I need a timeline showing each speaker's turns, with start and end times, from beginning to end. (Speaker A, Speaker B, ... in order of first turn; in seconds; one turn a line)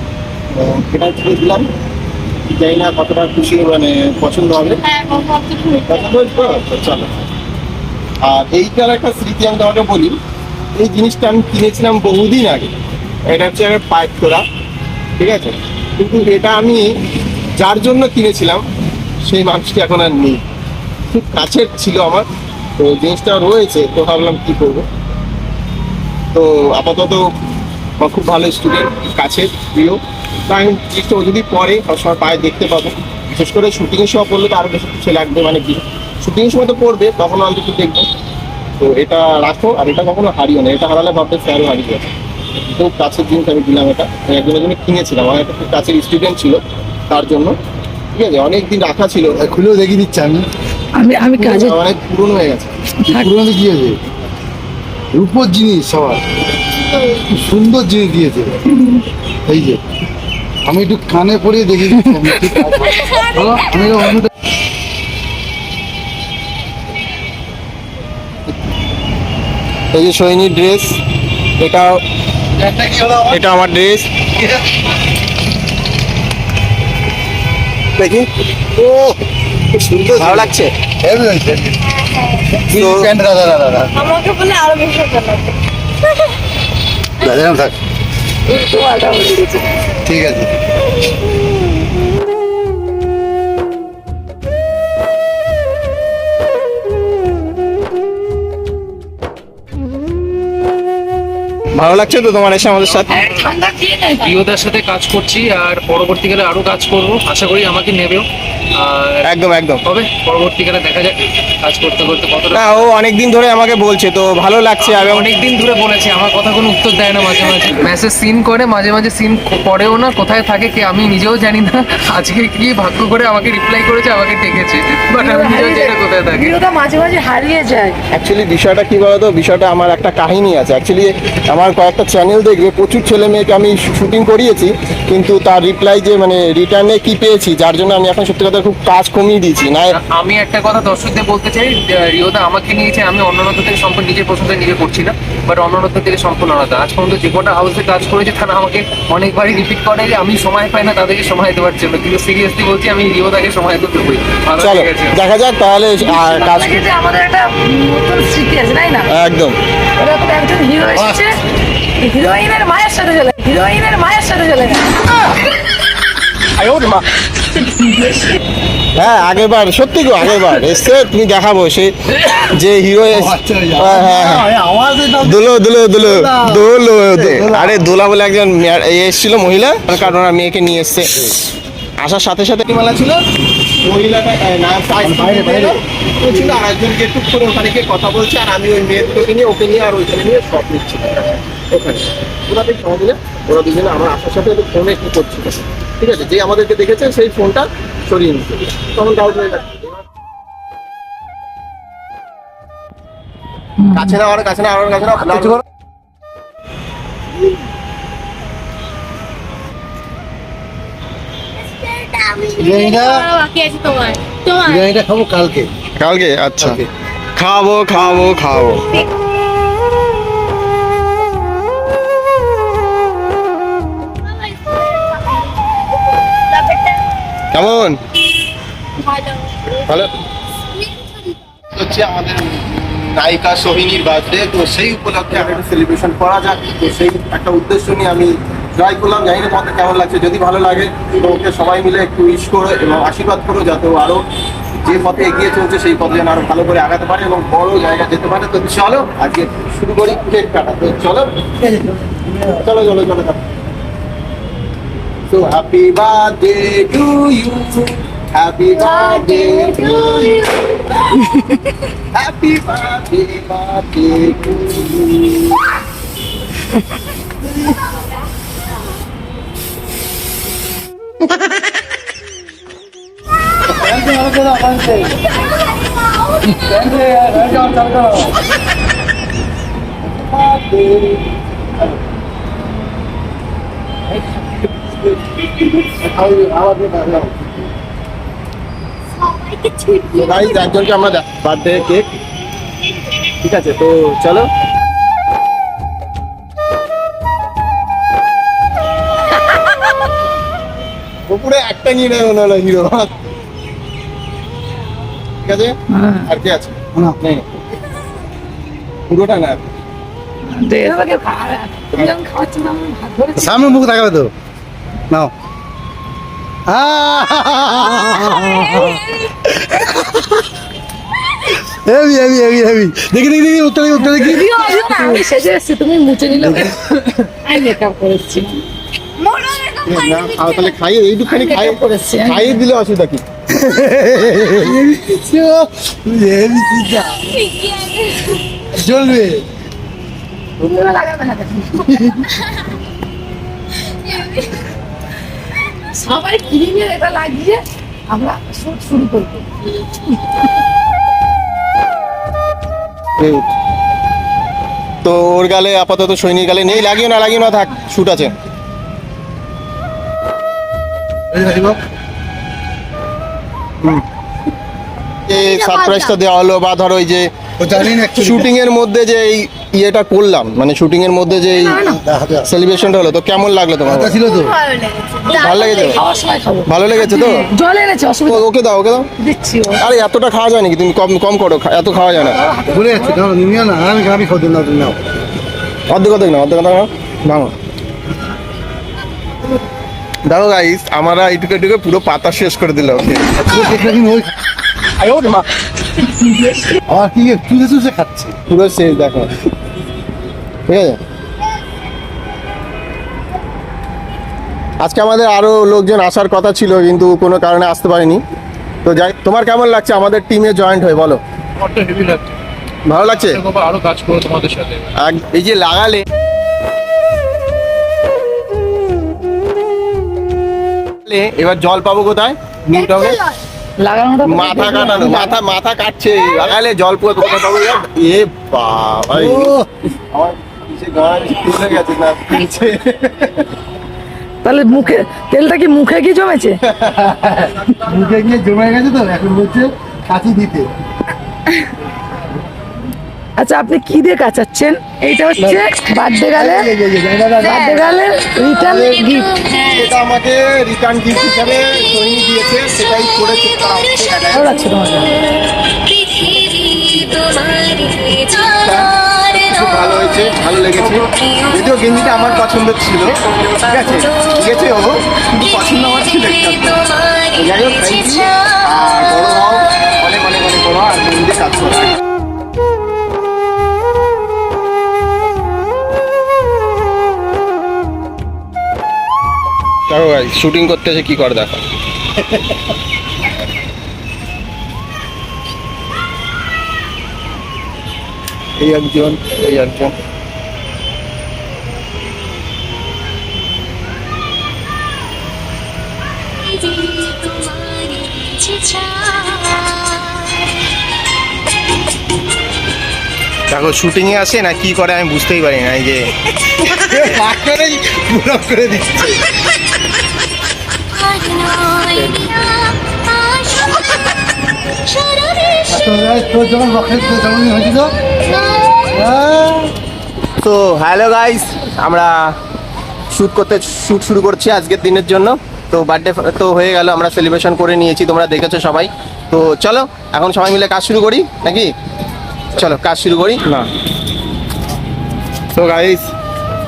Speaker A: 0.5-1.7
Speaker A: 2.5-4.8
Speaker B: 4.8-6.6
Speaker A: 5.9-7.1
Speaker A: 8.2-10.2
Speaker A: 10.8-12.7
Speaker A: 13.3-14.4
Speaker A: 15.2-16.9
Speaker A: 17.6-18.6
Speaker A: 19.3-20.4
Speaker A: 21.1-22.3
Speaker A: 22.8-24.9
Speaker A: 26.3-27.2
Speaker A: 28.0-38.1
Speaker A: 38.8-42.1
Speaker A: 42.7-47.6
Speaker A: 48.1-49.4
Speaker C: 49.4-50.5
Speaker D: 51.0-51.8
Speaker A: 51.4-52.8
Speaker C: 53.0-54.0
Speaker D: 53.0-53.3
Speaker C: 55.1-56.2
Speaker C: 57.0-58.6
Speaker C: 59.5-59.8
Speaker C: 60.6-64.3
Speaker A: 69.9-71.0
Speaker A: 71.6-72.0
Speaker C: 72.6-73.4
Speaker A: 73.3-74.1
Speaker A: 78.0-78.3
Speaker C: 78.8-79.1
Speaker A: 79.7-80.7
Speaker C: 80.1-81.8
Speaker B: 82.0-82.4
Speaker C: 82.6-84.0
Speaker A: 82.7-83.1
Speaker B: 84.0-85.6
Speaker C: 87.2-87.8
Speaker D: 88.5-89.7
Speaker C: 90.0-90.5
Speaker A: 101.8-103.1
Speaker D: 103.1-104.3
Speaker E: 104.2-108.3
Speaker E: 108.8-109.3
Speaker A: 109.2-109.8
Speaker E: 109.8-112.9
Speaker A: 112.5-115.3
Speaker E: 114.8-126.5
Speaker D: 125.2-128.0
Speaker A: 128.1-140.0
Speaker E: 139.9-155.2
Speaker A: 154.6-156.8
Speaker D: 156.0-159.1
Speaker A: 159.1-159.6
Speaker D: 160.0-161.3
Speaker D: 162.0-164.8
Speaker E: 166.6-167.1
Speaker A: 168.9-174.5
Speaker C: 173.1-177.9
Speaker A: 175.2-181.2
Speaker A: 182.0-183.2
Speaker A: 183.8-200.0
Speaker C: 185.0-185.8
Speaker D: 203.8-204.2
Speaker A: 203.9-205.6
Speaker B: 211.8-214.8
Speaker C: 212.6-213.3
Speaker C: 214.7-215.7
Speaker A: 216.0-216.8
Speaker C: 216.6-216.9
Speaker A: 217.4-219.0
Speaker B: 224.3-225.8
Speaker B: 226.4-227.0
Speaker A: 227.5-228.0
Speaker B: 229.0-229.7
Speaker A: 229.8-230.1
Speaker A: 231.7-244.2
Speaker A: 244.8-251.3
Speaker C: 251.6-252.6
Speaker A: 252.6-253.4
Speaker A: 255.3-260.5
Speaker B: 258.9-259.9
Speaker A: 262.1-265.6
Speaker C: 273.7-275.2
Speaker C: 276.4-278.4
Speaker C: 280.3-281.2
Speaker C: 285.8-287.4
Speaker B: 289.4-290.6
Speaker A: 290.1-292.1
Speaker A: 293.4-294.5
Speaker A: 301.3-303.1
Speaker A: 305.4-305.7
Speaker D: 305.9-306.3
Speaker A: 306.3-307.5
Speaker A: 309.1-309.6
Speaker D: 310.5-313.8
Speaker C: 313.4-314.3
Speaker C: 316.7-320.4
Speaker D: 318.0-319.0
Speaker C: 321.6-325.0
Speaker D: 324.0-326.7
Speaker C: 326.4-326.8
Speaker D: 327.4-328.6
Speaker B: 329.2-330.7
Speaker A: 329.8-333.2
Speaker D: 331.3-332.6
Speaker C: 333.6-337.4
Speaker C: 338.7-339.5
Speaker D: 340.6-341.9
Speaker C: 341.9-342.3
Speaker D: 344.1-344.5
Speaker D: 345.6-349.5
Speaker A: 353.2-353.5
Speaker A: 355.0-358.4
Speaker C: 361.3-361.8
Speaker A: 365.3-367.3
Speaker B: 365.3-366.1
Speaker C: 367.6-368.5
Speaker A: 368.1-371.9
Speaker D: 371.7-372.0
Speaker C: 371.9-372.5
Speaker A: 372.4-374.2
Speaker C: 373.9-374.6
Speaker B: 374.3-376.0
Speaker A: 375.2-376.0
Speaker D: 375.9-378.4
Speaker A: 376.7-377.5
Speaker A: 378.3-379.1
Speaker D: 379.2-379.8
Speaker A: 379.8-382.4
Speaker D: 382.2-383.2
Speaker C: 382.7-385.0
Speaker A: 385.9-387.5
Speaker A: 390.3-393.3
Speaker C: 393.4-394.3
Speaker A: 395.0-395.4
Speaker C: 396.8-398.4
Speaker A: 398.5-399.3
Speaker A: 400.7-401.0
Speaker A: 404.8-408.2
Speaker A: 408.8-411.2
Speaker E: 411.6-412.4
Speaker A: 412.9-413.4
Speaker E: 413.1-414.9
Speaker A: 415.0-416.0
Speaker A: 421.1-423.2
Speaker D: 423.8-425.4
Speaker A: 424.2-429.6
Speaker C: 429.1-429.7
Speaker A: 430.1-433.5
Speaker D: 434.4-436.6
Speaker C: 436.7-440.7
Speaker D: 443.4-446.7
Speaker C: 446.3-447.7
Speaker D: 447.4-449.3
Speaker A: 448.6-454.6
Speaker D: 454.3-455.1
Speaker A: 458.1-471.9
Speaker A: 479.9-481.6
Speaker A: 488.6-489.9
Speaker E: 496.8-497.7
Speaker E: 498.3-499.0
Speaker A: 503.5-506.1
Speaker C: 506.7-509.2
Speaker A: 511.8-512.4
Speaker C: 515.7-517.9
Speaker C: 518.9-519.7
Speaker A: 520.4-522.1
Speaker A: 523.1-531.7
Speaker A: 532.5-533.7
Speaker A: 535.5-536.1